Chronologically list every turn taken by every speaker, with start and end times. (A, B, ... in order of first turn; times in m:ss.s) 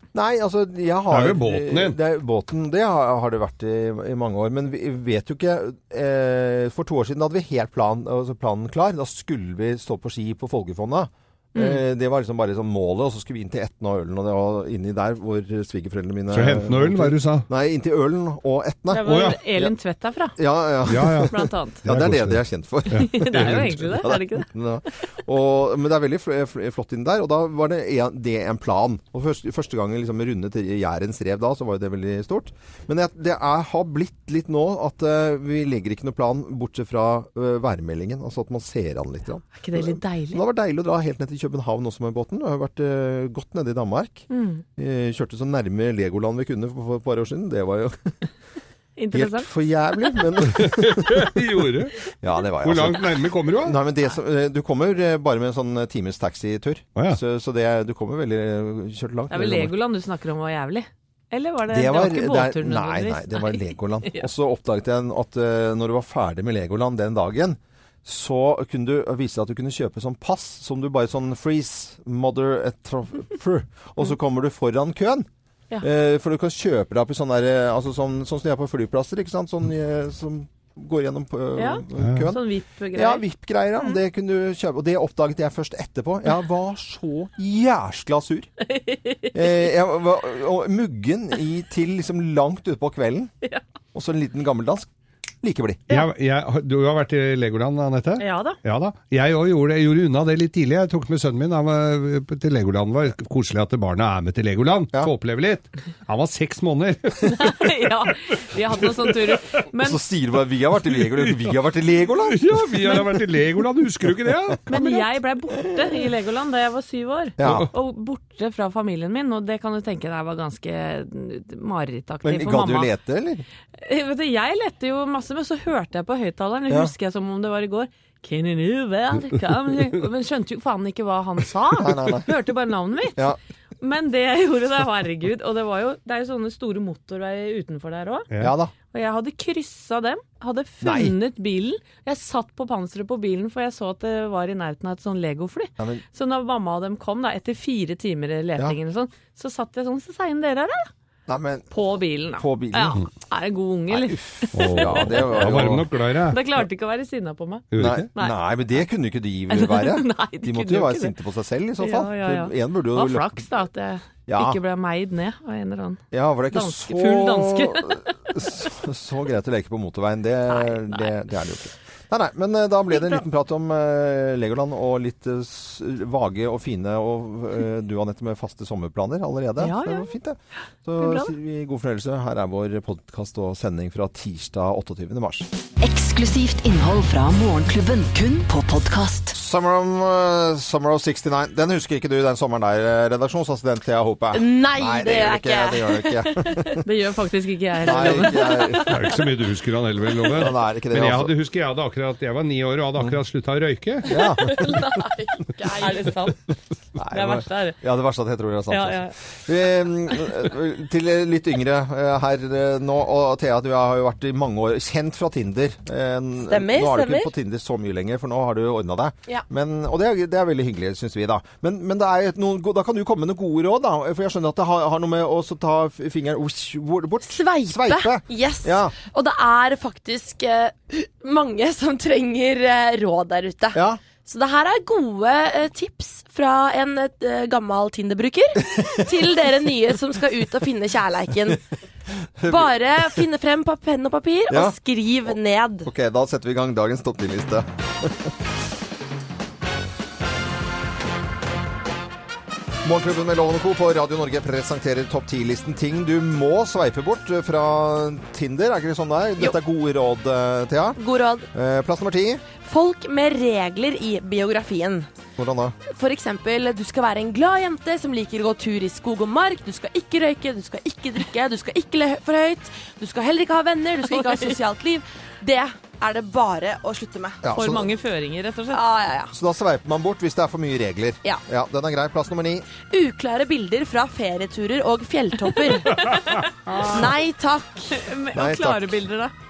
0:00.1-0:19.7 A
0:01.1-0:02.0 B
0:11.6-0:11.8 C
0:16.3-0:17.5 B
0:18.9-0:20.4 C
0:19.0-0:19.4 B
0:20.4-0:48.2 A
0:20.9-0:21.3 B
0:21.3-0:21.8 C
0:21.8-0:23.8 B
0:23.0-0:24.5 C
0:39.6-0:40.4 C
0:44.3-0:44.6 C
0:49.0-0:49.5 C
0:49.1-0:51.4 A
0:50.4-0:52.0 B
0:52.2-0:59.8 A
0:52.6-0:53.8 B
0:59.3-1:04.3 C
1:01.7-1:15.3 A
1:15.8-1:22.4 A
1:21.6-1:23.2 C
1:22.0-1:22.3 B
1:22.9-1:28.5 A
1:28.6-1:29.7 C
1:29.3-1:33.3 A
1:33.9-1:34.9 A
1:35.4-1:35.9 A
1:35.9-1:47.9 B
1:38.2-1:38.6 C
1:47.3-1:50.0 C
1:48.8-1:49.2 B
1:49.8-1:53.0 A
1:51.0-1:51.6 B
1:52.2-1:55.2 B
1:54.7-2:02.9 C
1:57.4-1:57.7 A
1:57.4-1:57.7 B
2:02.2-2:03.4 A
2:03.8-2:13.2 C
2:11.7-2:12.3 A
2:13.8-2:18.3 C
2:18.4-2:18.7 A
2:18.9-2:30.9 C
2:20.8-2:21.2 A
2:31.3-2:31.7 A
2:31.7-2:38.4 C
2:32.4-2:33.0 A
2:33.9-2:35.9 A
2:34.5-2:36.6 B
2:37.7-2:38.1 B
2:37.8-2:43.5 A
2:39.5-2:41.1 C
2:41.8-2:46.0 C
2:44.3-2:44.6 A
2:46.1-3:05.5 A
2:46.5-2:48.0 C
2:50.5-2:51.2 C
2:52.9-2:53.2 C
2:59.6-3:00.1 C
3:01.0-3:01.3 C
3:05.8-3:09.3 D
3:09.3-3:16.8 A
3:14.3-3:16.1 E
3:16.8-3:18.9 C
3:17.8-3:19.2 A
3:18.8-3:24.1 B
3:20.3-3:21.3 A
3:24.0-3:25.0 A
3:24.2-3:26.4 C
3:25.6-3:26.0 E
3:27.0-3:48.9 A
3:27.1-3:27.8 C
3:28.7-3:29.1 C
3:36.5-3:37.3 E
3:47.2-4:01.6 E
3:53.7-3:54.0 A
3:58.6-3:59.4 A
4:02.4-4:03.2 A
4:02.5-4:05.9 E
4:04.5-4:08.3 A
4:12.8-4:21.0 A
4:21.0-4:21.5 E
4:21.5-4:22.4 A
4:22.6-4:25.1 E
4:25.4-4:25.8 A
4:25.9-4:37.4 E
4:37.4-4:37.9 A
4:37.5-4:38.8 C
4:38.7-4:39.3 E
4:39.3-4:42.7 A
4:42.8-4:48.0 E
4:46.0-4:47.1 C
4:47.9-4:49.3 C
4:48.3-4:49.0 A